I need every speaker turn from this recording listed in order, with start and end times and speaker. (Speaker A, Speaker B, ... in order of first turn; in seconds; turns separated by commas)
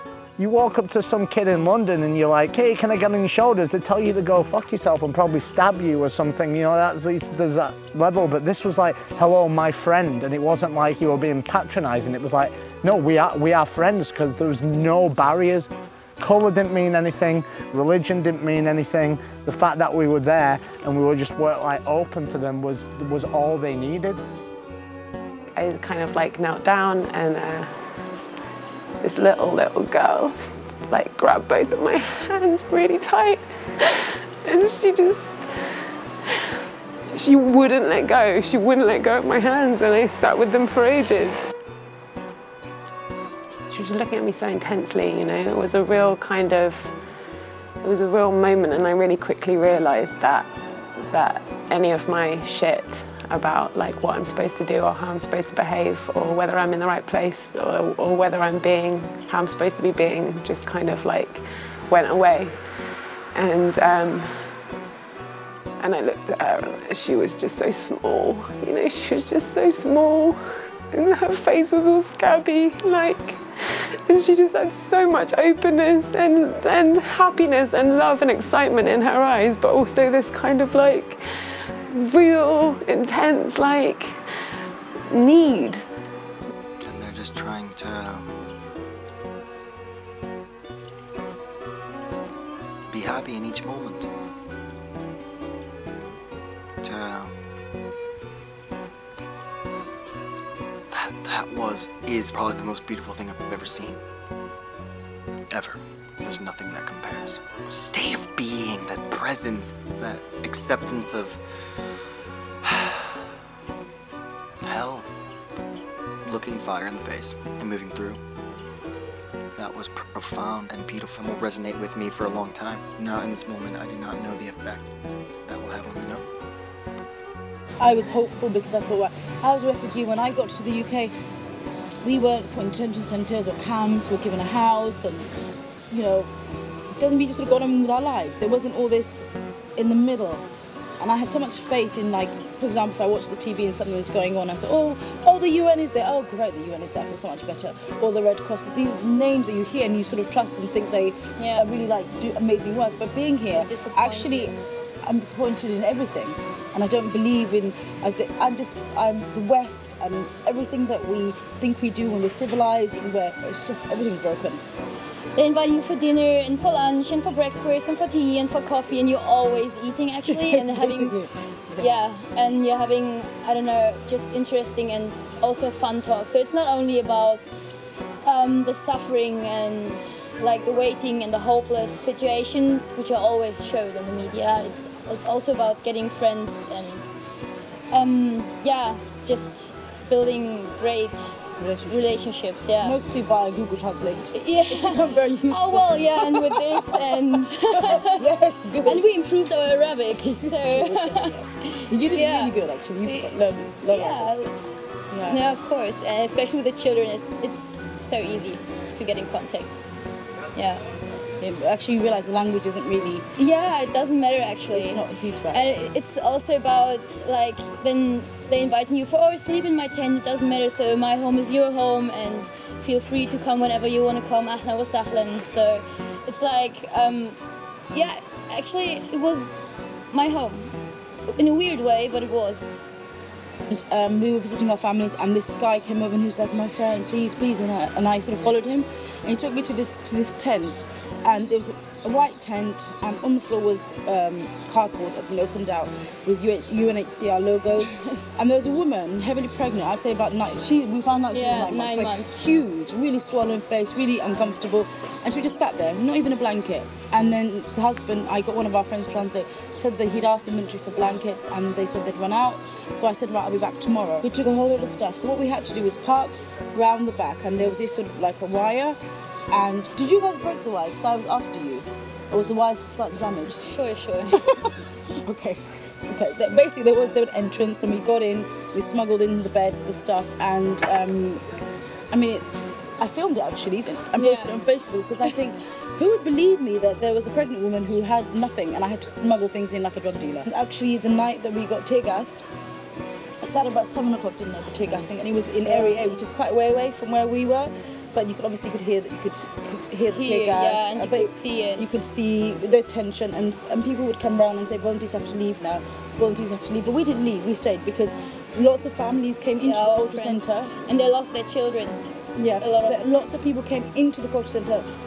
Speaker A: 0.4-24.2, Speaker B: 25.5-27.8, Speaker B: 29.0-35.7, Speaker B: 37.1-41.4, Speaker B: 43.7-46.9, Speaker B: 47.8-62.6, Speaker B: 63.4-64.5, Speaker B: 65.8-70.4, Speaker B: 70.9-81.2, Speaker B: 81.9-84.2, Speaker B: 85.1-85.8, Speaker C: 86.8-88.3, Speaker C: 92.9-94.1, Speaker C: 96.8-97.3, Speaker C: 100.9-104.0, Speaker C: 105.5-111.4, Speaker C: 112.7-113.1, Speaker C: 114.7-115.1, Speaker C: 116.2-118.2, Speaker C: 119.6-124.9, Speaker C: 125.5-126.3, Speaker D: 127.8-131.1, Speaker D: 132.0-135.3, Speaker D: 135.9-136.3, Speaker D: 137.0-140.4, Speaker D: 141.0-164.6, Speaker E: 151.4-151.7, Speaker E: 153.6-154.5, Speaker E: 165.4-171.2, Speaker D: 170.3-171.9, Speaker E: 171.8-177.4, Speaker E: 178.2-187.1, Speaker E: 187.9-191.4, Speaker D: 191.6-192.2, Speaker E: 191.9-193.0, Speaker D: 192.8-199.1, Speaker E: 194.3-198.2, Speaker E: 198.8-201.4, Speaker D: 200.1-204.3, Speaker E: 201.9-209.8, Speaker D: 205.1-205.4, Speaker E: 210.6-210.8, Speaker D: 211.4-213.2, Speaker E: 213.4-227.4, Speaker D: 214.7-215.8, Speaker E: 227.9-229.5, Speaker E: 230.1-230.7, Speaker E: 231.3-232.7, Speaker D: 233.7-269.0, Speaker E: 247.9-248.2, Speaker E: 251.3-252.3, Speaker D: 269.5-273.8, Speaker E: 273.6-274.4, Speaker D: 274.3-274.6, Speaker D: 275.2-281.4, Speaker D: 282.1-282.4, Speaker D: 283.0-292.4, Speaker E: 284.1-284.7, Speaker D: 293.4-310.7, Speaker E: 295.6-296.2, Speaker E: 300.1-301.9, Speaker E: 309.6-312.0, Speaker D: 312.4-314.9, Speaker E: 312.6-313.1